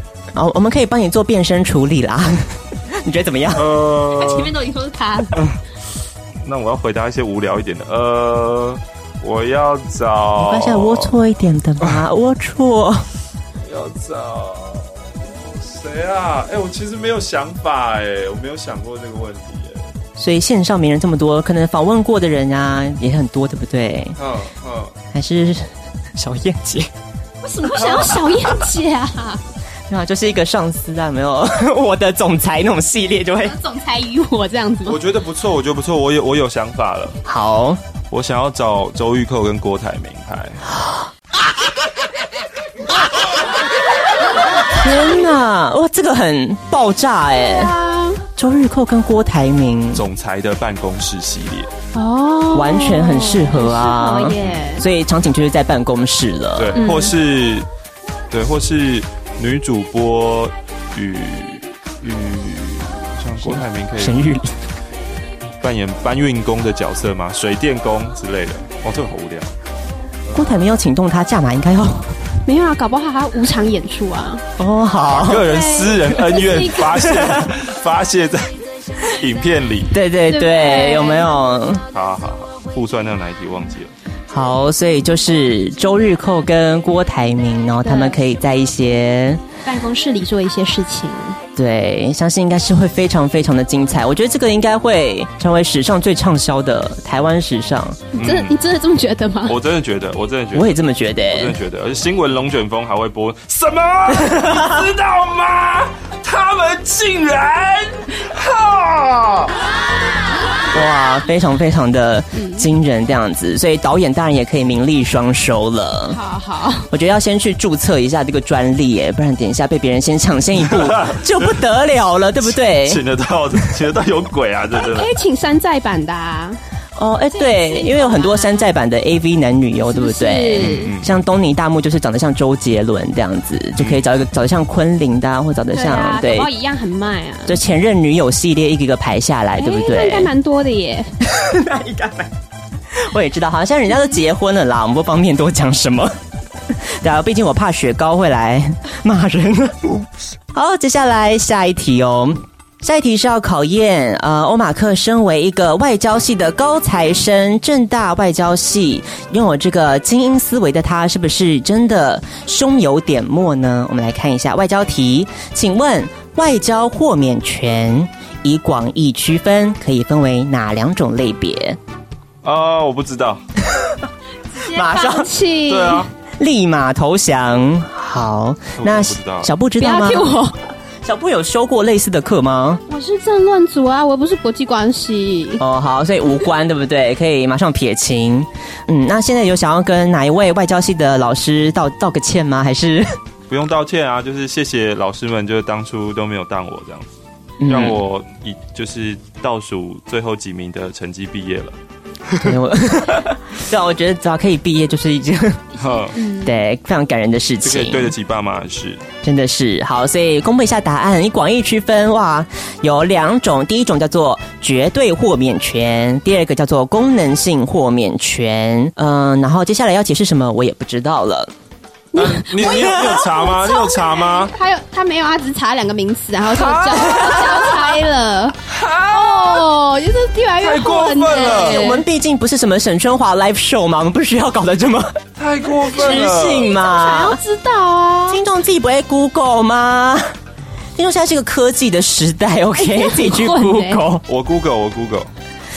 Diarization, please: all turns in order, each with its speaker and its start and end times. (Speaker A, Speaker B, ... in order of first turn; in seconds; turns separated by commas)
Speaker A: 0.3-3.7, Speaker B: 3.5-4.5, Speaker C: 4.2-5.5, Speaker B: 6.4-11.1, Speaker A: 10.4-13.1, Speaker B: 13.6-19.8, Speaker A: 20.2-24.2, Speaker B: 24.2-24.9, Speaker A: 25.1-26.9, Speaker C: 27.4-29.4, Speaker B: 27.8-28.3, Speaker A: 29.9-33.6, Speaker C: 33.4-35.0, Speaker B: 34.9-37.2, Speaker A: 37.3-37.8, Speaker B: 38.1-40.6, Speaker A: 40.7-41.1, Speaker A: 44.7-47.7, Speaker C: 47.4-48.2, Speaker A: 48.4-50.0, Speaker B: 49.9-51.7, Speaker C: 52.0-54.8, Speaker A: 52.5-56.8, Speaker B: 56.6-57.7, Speaker C: 56.8-57.1, Speaker B: 58.3-64.4, Speaker A: 63.4-64.5, Speaker B: 65.6-69.5, Speaker A: 70.3-72.1, Speaker C: 72.5-74.4, Speaker A: 74.6-75.5, Speaker B: 75.1-79.9, Speaker C: 75.4-77.1, Speaker A: 77.0-77.5, Speaker A: 79.9-81.8, Speaker C: 80.3-81.3, Speaker B: 81.9-83.9, Speaker A: 84.3-89.4, Speaker C: 87.8-88.2, Speaker C: 89.7-91.4, Speaker A: 91.6-98.0, Speaker C: 98.1-99.5, Speaker B: 98.2-98.6, Speaker B: 99.5-109.5, Speaker A: 100.5-101.6, Speaker A: 104.2-104.8, Speaker A: 110.7-116.2, Speaker C: 112.3-112.7, Speaker C: 116.1-116.9, Speaker A: 116.9-123.0, Speaker B: 120.7-121.4, Speaker B: 122.7-125.1, Speaker C: 124.8-126.6, Speaker A: 127.0-136.5, Speaker C: 127.3-128.7, Speaker C: 129.8-130.9, Speaker B: 130.6-131.2, Speaker C: 135.7-137.6, Speaker A: 137.5-140.3, Speaker C: 139.6-141.1, Speaker A: 141.2-142.3, Speaker A: 142.9-146.1, Speaker A: 146.7-150.0, Speaker A: 150.5-171.8, Speaker B: 172.4-173.4, Speaker C: 174.5-176.1, Speaker A: 174.7-175.3, Speaker B: 175.7-176.1, Speaker A: 176.4-180.3, Speaker B: 178.8-179.5, Speaker C: 179.8-180.6, Speaker A: 181.0-182.8, Speaker C: 182.9-185.6, Speaker A: 185.6-193.2, Speaker B: 193.5-201.8, Speaker A: 197.6-198.0, Speaker A: 202.4-205.6, Speaker B: 205.8-206.2, Speaker C: 206.0-206.6, Speaker A: 206.4-208.2, Speaker B: 207.6-209.0, Speaker A: 209.2-221.5, Speaker C: 222.1-228.6, Speaker B: 222.1-224.5, Speaker B: 226.5-227.9, Speaker B: 228.7-229.7, Speaker C: 229.1-232.0, Speaker B: 230.6-231.8, Speaker A: 231.3-235.2, Speaker B: 235.4-236.7, Speaker A: 235.8-237.4, Speaker C: 236.1-238.4, Speaker A: 238.3-240.2, Speaker A: 241.0-244.2, Speaker C: 242.8-244.0, Speaker B: 244.3-245.3